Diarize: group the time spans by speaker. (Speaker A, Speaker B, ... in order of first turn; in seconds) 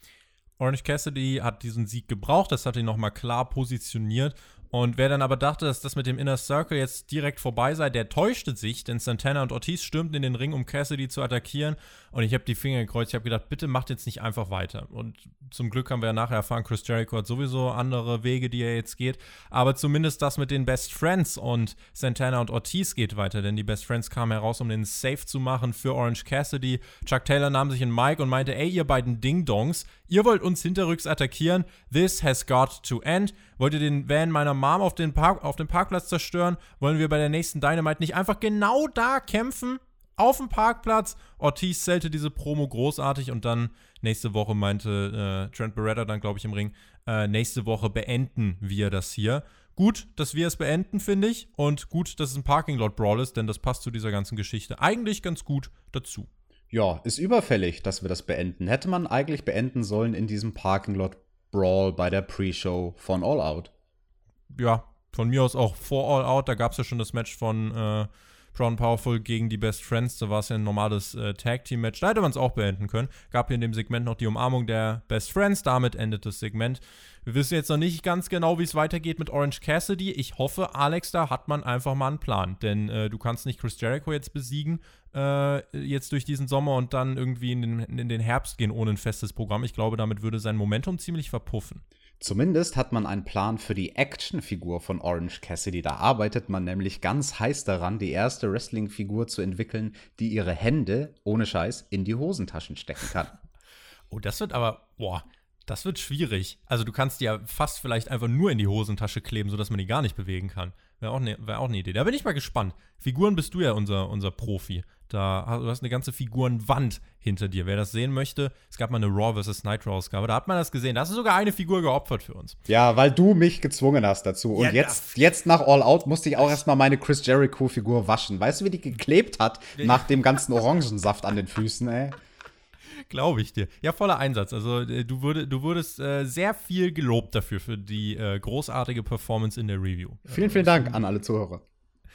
Speaker A: 0.6-56.3, 64.5-91.8, 104.1-122.6, 124.5-125.1, 132.9-141.0
Speaker B: 56.7-63.7, 92.2-103.3, 122.7-132.2, 140.3-141.6